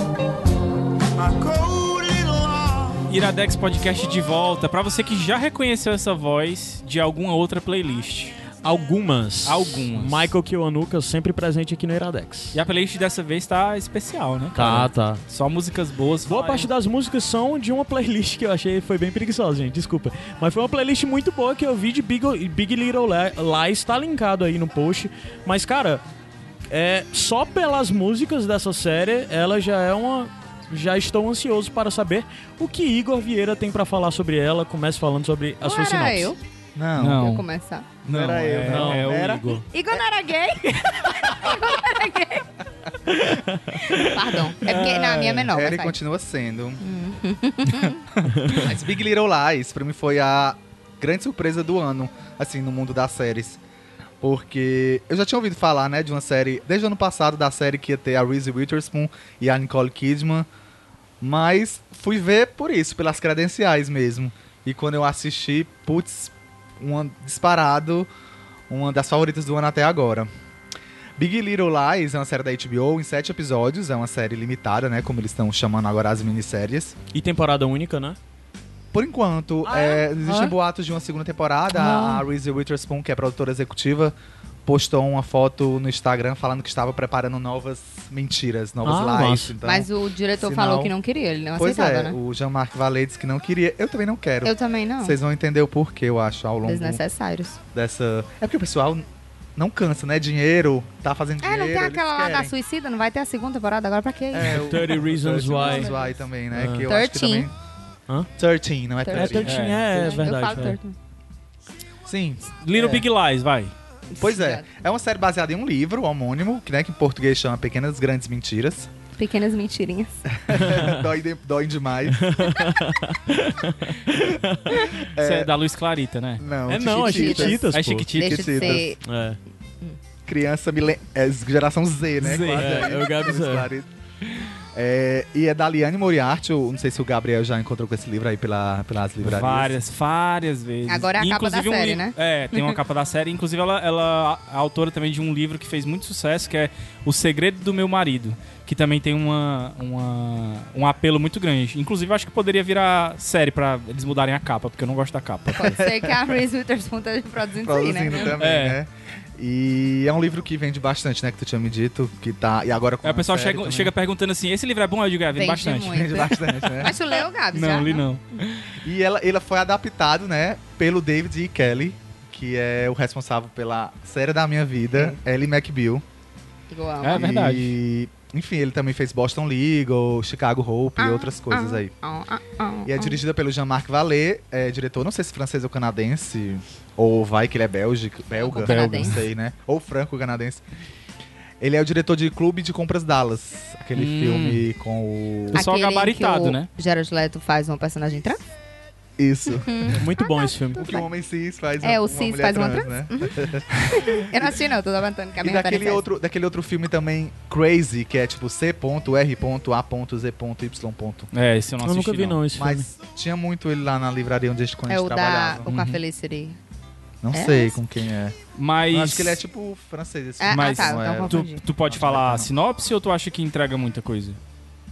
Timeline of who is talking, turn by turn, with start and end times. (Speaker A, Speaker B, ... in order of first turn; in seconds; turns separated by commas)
Speaker A: 1.1-3.1, Speaker B: 3.1-8.4, Speaker C: 8.6-12.6, Speaker B: 9.4-10.3, Speaker B: 12.5-16.7, Speaker C: 14.5-15.2, Speaker C: 16.2-26.0, Speaker C: 26.7-36.3, Speaker D: 35.6-36.4, Speaker E: 36.7-37.4, Speaker B: 37.0-37.5, Speaker D: 37.1-37.9, Speaker B: 38.0-39.6, Speaker E: 38.1-39.6, Speaker C: 38.7-39.2, Speaker D: 39.7-42.5, Speaker C: 43.1-44.5, Speaker D: 43.9-46.0, Speaker B: 44.6-45.5, Speaker E: 45.5-46.8, Speaker D: 46.8-48.0, Speaker E: 48.4-53.6, Speaker E: 54.2-60.5, Speaker E: 61.2-68.1, Speaker E: 68.7-70.3, Speaker E: 71.2-77.0, Speaker C: 77.1-78.2, Speaker E: 78.9-89.9, Speaker C: 79.6-80.5, Speaker C: 81.7-82.2, Speaker C: 88.8-89.5, Speaker D: 89.6-92.2, Speaker E: 90.4-90.9, Speaker E: 91.5-97.0, Speaker D: 94.4-95.2, Speaker D: 96.6-97.6, Speaker E: 97.7-102.5, Speaker D: 101.4-104.7, Speaker E: 104.3-107.5, Speaker C: 104.5-105.9, Speaker D: 105.5-106.2, Speaker C: 106.5-106.9, Speaker D: 106.8-107.5, Speaker E: 108.4-109.6, Speaker D: 109.0-111.0, Speaker C: 109.1-110.8, Speaker B: 109.4-110.1, Speaker E: 112.0-113.0, Speaker B: 112.6-113.7, Speaker D: 114.1-114.6, Speaker E: 114.2-118.9, Speaker D: 119.2-120.2, Speaker E: 120.3-122.5, Speaker C: 120.6-121.0, Speaker C: 122.1-124.8, Speaker E: 125.1-125.5, Speaker B: 125.2-126.5, Speaker E: 126.4-128.9, Speaker C: 126.7-128.1, Speaker D: 126.9-129.0, Speaker B: 127.7-128.8, Speaker C: 129.0-129.4, Speaker E: 130.2-133.9, Speaker B: 132.2-132.9, Speaker C: 132.5-133.7, Speaker E: 134.7-139.8, Speaker B: 139.2-155.8, Speaker D: 140.9-142.7, Speaker D: 155.5-158.4, Speaker E: 155.6-156.3, Speaker E: 157.6-163.9, Speaker B: 158.4-158.8, Speaker B: 163.0-166.2, Speaker D: 165.3-168.0, Speaker E: 165.8-166.9, Speaker B: 167.5-168.8, Speaker E: 168.7-176.0, Speaker D: 176.7-177.3, Speaker B: 177.0-177.7, Speaker E: 177.1-181.9, Speaker D: 181.0-183.2, Speaker E: 182.8-190.6, Speaker D: 188.4-189.2, Speaker B: 188.6-189.2, Speaker E: 191.6-195.6, Speaker B: 193.9-194.6, Speaker B: 195.5-196.7, Speaker D: 195.5-198.4, Speaker E: 199.2-200.0, Speaker D: 199.6-201.0, Speaker C: 199.9-201.0, Speaker E: 200.7-204.6, Speaker D: 201.8-203.4, Speaker D: 203.9-206.1, Speaker E: 205.4-211.3, Speaker B: 211.3-212.4, Speaker C: 211.8-212.8, Speaker E: 212.5-215.7, Speaker D: 214.9-216.6, Speaker B: 215.7-216.0, Speaker E: 217.2-218.4, Speaker D: 217.3-217.8, Speaker B: 218.6-219.4, Speaker E: 218.9-222.5, Speaker D: 220.4-221.6, Speaker B: 220.5-224.4